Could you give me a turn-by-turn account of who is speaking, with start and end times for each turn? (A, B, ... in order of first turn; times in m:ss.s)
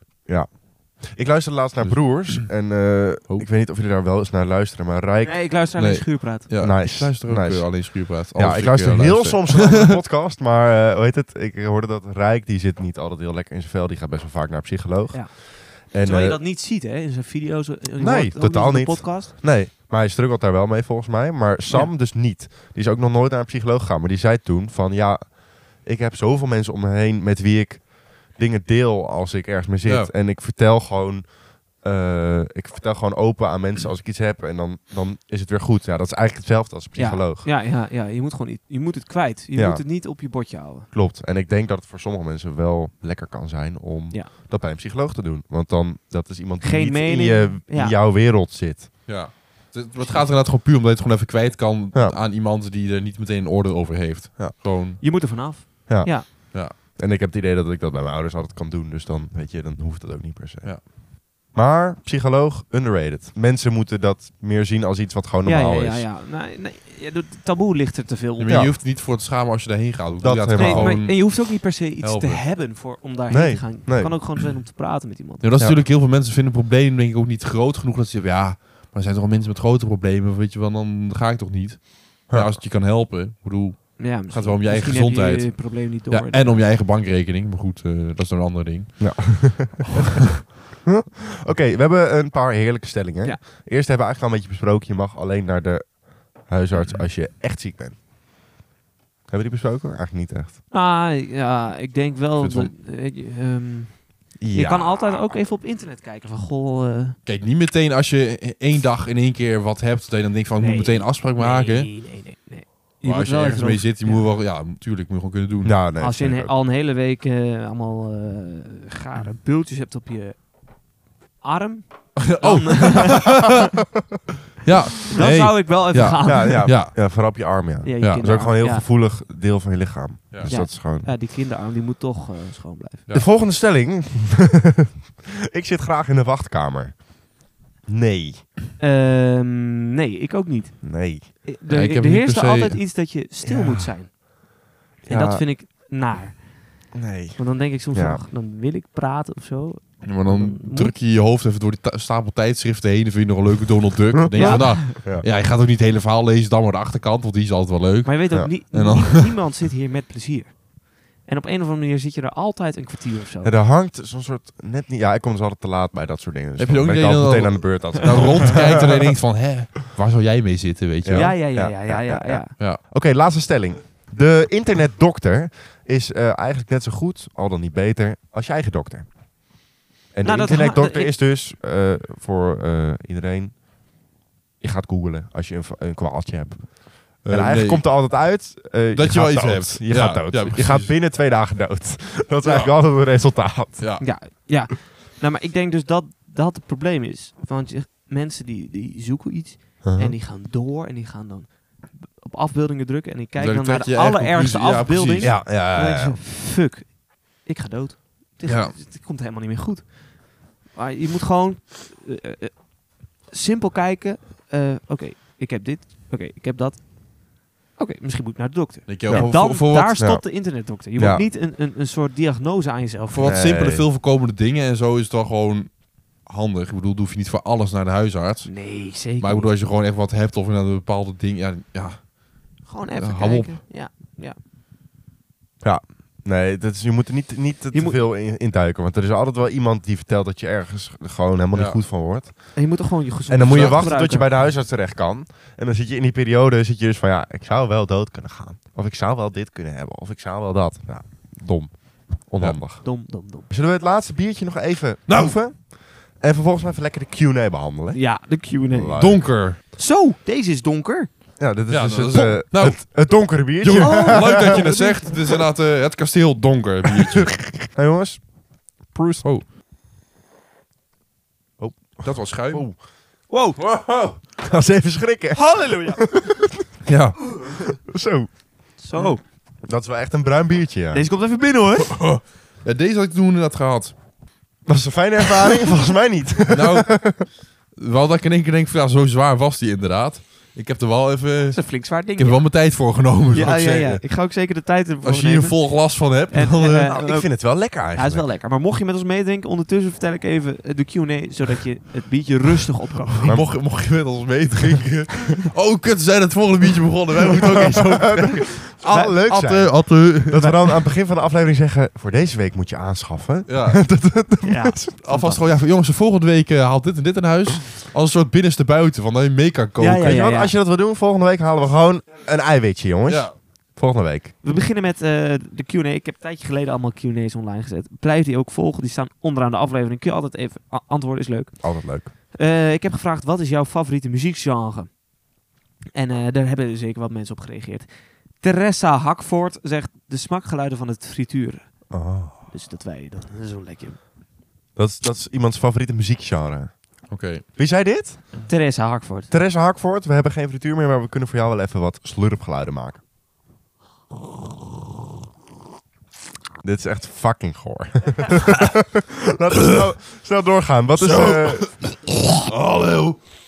0:00.2-0:05.5 A
0:01.8-0:02.6 B
0:05.2-0:06.7 C
0:05.7-0:09.9 B
0:06.6-0:16.4 A
0:15.1-0:19.3 C
0:18.0-0:37.5 A
0:29.8-0:30.1 B
0:37.0-0:40.9 C
0:39.5-0:39.8 A
0:40.9-0:48.9 A
0:46.6-0:48.0 C
0:49.1-0:55.0 B
0:54.4-0:55.0 A
0:55.0-0:56.3 C
0:55.9-1:06.1 A
1:05.4-1:08.7 C
1:08.4-1:12.4 B
1:08.5-1:08.8 A
1:10.2-1:11.0 A
1:10.6-1:15.5 C
1:13.3-1:14.2 A
1:15.4-1:30.0 B
1:22.3-1:22.6 A
1:24.0-1:26.6 C
1:29.0-1:30.2 A
1:30.8-1:38.0 A
1:36.7-1:37.0 B
1:39.3-1:40.6 A
1:40.7-1:47.2 C
1:42.4-1:42.7 B
1:44.4-1:45.1 A
1:47.2-1:51.9 B
1:50.6-1:54.3 C
1:53.0-1:55.8 B
1:55.6-1:56.5 A
1:56.0-2:03.6 C
2:02.2-2:03.6 B
2:04.6-2:07.3 B
2:05.1-2:06.7 C
2:06.2-2:11.1 A
2:07.8-2:08.8 C
2:08.0-2:08.2 B
2:10.5-2:13.0 C
2:13.1-2:18.4 A
2:18.8-2:24.5 C
2:20.8-2:21.3 A
2:21.7-2:22.8 B
2:23.4-2:24.1 A
2:25.0-2:25.4 A
2:25.1-2:30.9 C
2:26.9-2:28.2 A
2:30.0-2:39.3 B
2:34.2-2:35.2 A
2:34.4-2:34.8 C
2:38.0-2:43.5 C
2:43.4-2:49.1 A
2:46.6-2:51.4 B
2:51.0-2:59.2 A
2:51.1-2:52.5 C
3:00.1-3:03.6 A
3:00.2-3:01.2 C
3:04.6-3:14.1 A
3:07.2-3:08.1 B
3:08.9-3:10.9 B
3:12.4-3:12.8 B
3:13.8-3:14.1 B
3:14.0-3:43.5 C
3:19.8-3:20.1 A
3:23.4-3:25.5 B
3:25.2-3:26.2 A
3:28.4-3:28.7 B
3:38.9-3:40.0 B
3:39.1-3:39.4 A
3:40.0-3:41.2 A
3:43.1-3:52.3 B
3:43.2-3:43.8 A
3:48.5-3:49.5 C
3:52.6-3:54.4 C
3:53.0-3:53.6 B
3:55.6-4:02.7 A
3:57.7-3:58.0 C
4:01.5-4:01.8 B
4:02.5-4:04.4 C
4:03.3-4:19.2 A
4:03.5-4:03.8 B
4:12.8-4:13.5 C
4:15.1-4:15.4 B
4:17.9-4:21.1 C
4:18.9-4:19.6 B
4:21.4-4:24.7 A
4:21.7-4:27.4 B
4:23.7-4:25.4 C
4:27.1-4:29.2 A
4:31.6-4:32.8 A
4:32.0-4:32.7 B
4:33.3-4:33.6 C
4:33.6-4:34.2 B
4:34.4-4:36.8 A
4:35.3-4:36.3 C
4:36.8-4:37.2 B
4:37.4-4:38.3 A
4:38.8-4:39.2 C
4:38.9-4:41.0 A
4:40.9-4:42.0 C
4:41.8-4:43.9 B
4:44.6-4:47.3 A
4:46.5-4:54.0 B
4:51.5-5:03.4 C
4:55.0-4:56.9 B
4:56.8-4:58.2 A
5:03.2-5:10.7 B
5:03.2-5:03.5 A
5:07.6-5:15.0 A
5:08.8-5:09.1 C
5:13.5-5:13.9 B
5:14.4-5:15.4 C
5:15.0-5:20.3 B
5:19.8-5:20.5 C
5:20.0-5:24.3 A
5:23.1-5:23.4 B
5:24.4-5:35.0 C
5:31.6-5:32.1 A
5:35.9-5:44.0 C
5:41.9-5:42.4 A
5:44.7-5:48.3 A
5:47.1-5:47.4 B
5:48.4-5:49.3 C
5:49.3-5:53.0 A
5:56.6-6:01.8 A
6:01.0-6:03.2 B